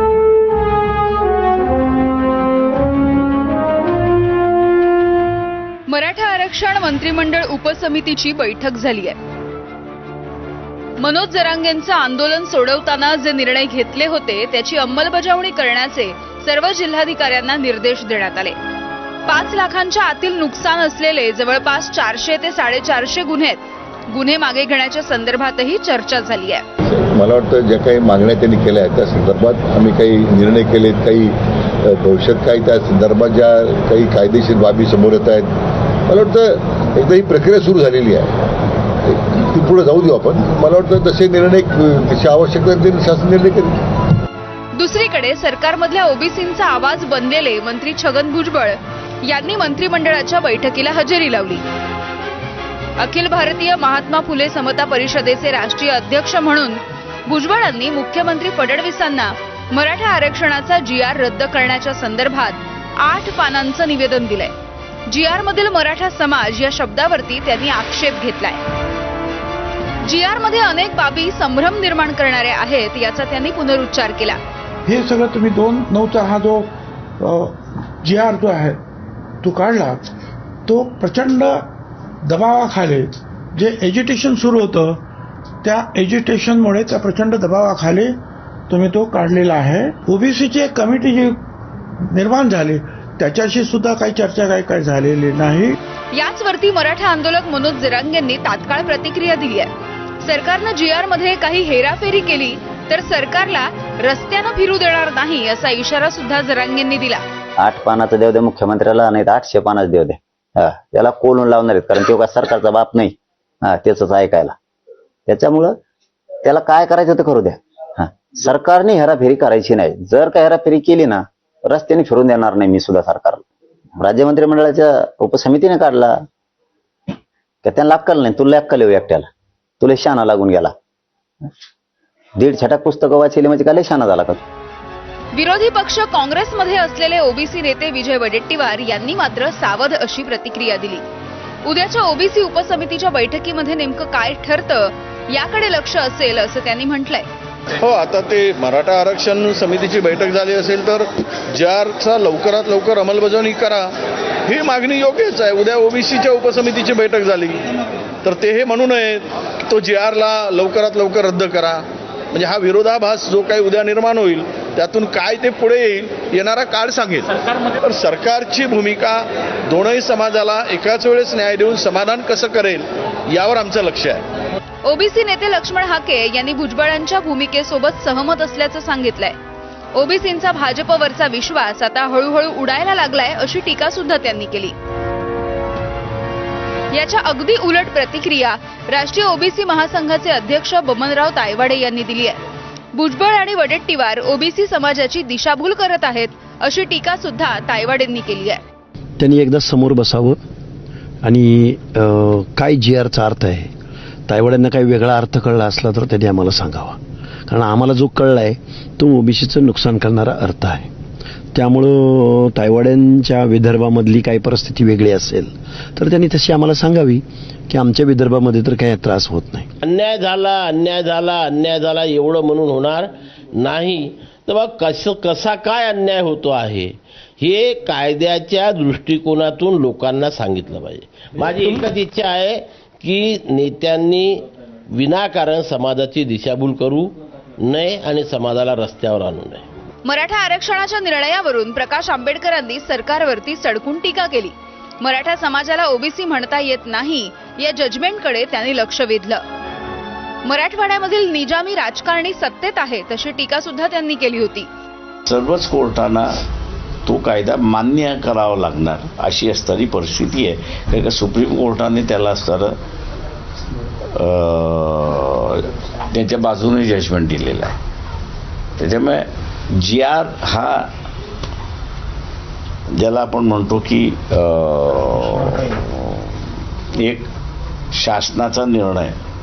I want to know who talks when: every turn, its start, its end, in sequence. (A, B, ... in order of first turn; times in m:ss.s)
0:05.9-0:09.2 A
0:11.0-0:18.5 A
0:19.3-0:23.6 A
0:24.1-0:26.6 A
0:26.9-0:35.5 B
0:36.1-0:38.5 B
0:39.0-0:43.8 B
0:44.7-0:51.6 A
0:53.0-1:04.5 A
1:05.1-1:08.6 A
1:10.0-1:14.4 A
1:14.9-1:18.8 C
1:19.4-1:20.0 C
1:20.6-1:21.6 C
1:22.2-1:25.0 C
1:25.6-1:28.1 C
1:28.7-1:31.4 C
1:32.1-1:35.8 C
1:36.1-1:39.7 A
1:40.2-1:47.2 A
1:47.6-1:54.5 D
1:55.3-1:55.8 D
1:56.4-2:03.4 D
2:04.0-2:06.1 D
2:07.6-2:09.3 D
2:09.8-2:10.7 D
2:12.4-2:14.4 D
2:15.3-2:21.0 A
2:21.6-2:27.2 A
2:27.8-2:33.9 E
2:34.5-2:37.6 E
2:38.2-2:54.2 E
2:54.8-2:59.4 A
2:59.9-3:04.7 A
3:06.9-3:12.4 A
3:12.9-3:18.6 A
3:19.2-3:20.4 F
3:21.2-3:23.7 F
3:24.3-3:27.0 F
3:27.5-3:30.9 F
3:31.5-3:39.7 F
3:39.8-3:59.6 G
4:00.0-4:09.4 A
4:10.4-4:14.7 A
4:15.3-4:16.3 H
4:17.1-4:22.7 H
4:24.2-4:27.8 H
4:28.8-4:29.3 H
4:29.8-4:30.9 H
4:33.0-4:36.4 H
4:37.0-4:37.2 H
4:37.9-4:39.2 H